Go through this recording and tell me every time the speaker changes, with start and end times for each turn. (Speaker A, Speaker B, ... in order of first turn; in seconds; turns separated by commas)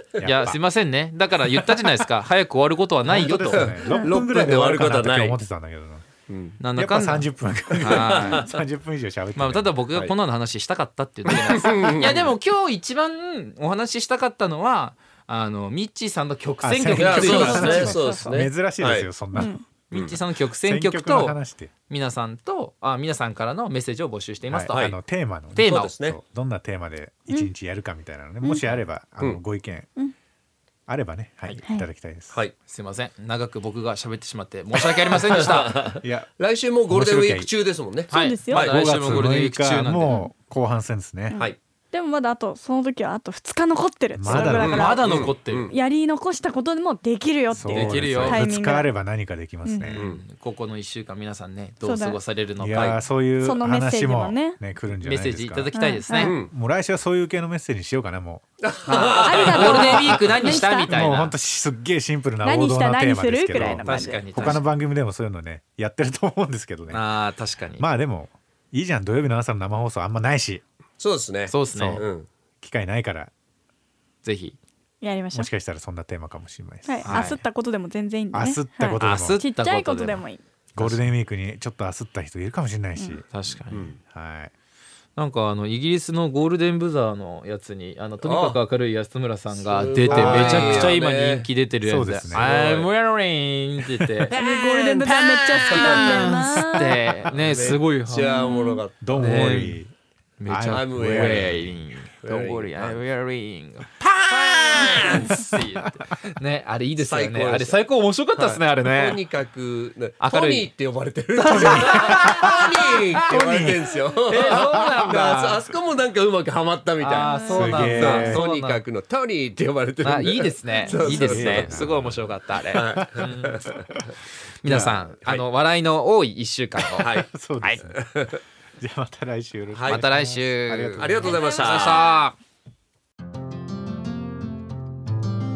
Speaker A: 0.2-0.6, Speaker B: 0.2-3.8, Speaker A: 1.5-1.9, Speaker A: 3.0-6.1, Speaker C: 3.4-5.4, Speaker C: 6.3-6.6, Speaker B: 6.6-8.5, Speaker A: 6.8-9.7, Speaker C: 7.8-8.6, Speaker B: 9.4-17.9, Speaker C: 11.3-12.2, Speaker A: 16.6-21.7, Speaker C: 16.9-19.1, Speaker D: 17.2-18.3, Speaker D: 19.3-19.6, Speaker B: 19.9-24.9, Speaker A: 24.5-29.9, Speaker B: 25.6-26.0, Speaker C: 25.6-26.2, Speaker A: 30.9-32.4, Speaker B: 32.7-36.0, Speaker C: 34.8-39.3, Speaker A: 36.0-36.3, Speaker A: 36.9-37.5, Speaker B: 38.1-40.2, Speaker D: 38.1-38.7, Speaker A: 38.5-41.4, Speaker D: 41.3-48.9, Speaker A: 44.1-45.0, Speaker B: 44.3-45.7, Speaker C: 44.3-45.8, Speaker A: 47.5-50.0, Speaker B: 47.6-48.4, Speaker D: 49.6-49.9, Speaker B: 49.9-53.0, Speaker D: 51.8-52.2, Speaker A: 52.6-55.7, Speaker D: 53.4-54.6, Speaker B: 55.0-56.4, Speaker D: 55.7-56.3, Speaker C: 56.2-56.5, Speaker A: 56.2-58.5, Speaker C: 58.6-60.2, Speaker B: 58.9-61.4, Speaker D: 59.1-60.9, Speaker A: 59.5-67.1, Speaker D: 62.4-64.2, Speaker B: 63.6-64.7, Speaker B: 66.9-67.9, Speaker A: 67.8-70.6, Speaker C: 71.0-72.3, Speaker B: 71.5-72.0, Speaker A: 72.6-73.3, Speaker B: 74.2-74.6, Speaker D: 75.0-75.5, Speaker A: 75.3-77.4, Speaker D: 76.9-80.4, Speaker B: 77.1-77.4, Speaker A: 78.3-79.4, Speaker B: 79.0-80.2, Speaker A: 80.8-83.3, Speaker B: 80.8-81.0, Speaker B: 83.3-83.9, Speaker C: 83.7-84.0, Speaker A: 83.9-84.5, Speaker B: 85.2-94.4, Speaker C: 88.2-88.6, Speaker C: 89.5-91.5, Speaker A: 90.1-91.0, Speaker A: 91.8-92.6, Speaker C: 92.3-92.9, Speaker C: 94.3-96.4, Speaker D: 94.4-97.0, Speaker B: 95.5-98.5, Speaker C: 97.3-99.6, Speaker D: 98.3-98.8, Speaker A: 99.0-99.9, Speaker B: 99.2-99.8, Speaker B: 100.4-109.2, Speaker A: 100.5-101.7, Speaker C: 100.7-101.7, Speaker C: 102.2-103.0, Speaker C: 104.2-105.4, Speaker A: 105.1-105.7, Speaker C: 107.0-107.8, Speaker C: 108.4-121.9, Speaker B: 110.2-110.7, Speaker B: 111.4-115.6, Speaker A: 111.6-115.1, Speaker B: 117.0-118.8, Speaker D: 117.3-117.7, Speaker A: 117.5-118.5, Speaker B: 120.0-123.7, Speaker A: 120.9-122.3, Speaker C: 122.7-123.9, Speaker A: 122.8-124.0, Speaker B: 124.6-127.8, Speaker A: 124.7-125.1, Speaker C: 126.9-127.3, Speaker A: 127.0-128.0, Speaker C: 127.9-128.4, Speaker A: 128.8-131.4, Speaker C: 129.7-130.0, Speaker B: 129.9-132.3, Speaker C: 131.0-132.2, Speaker D: 131.3-132.2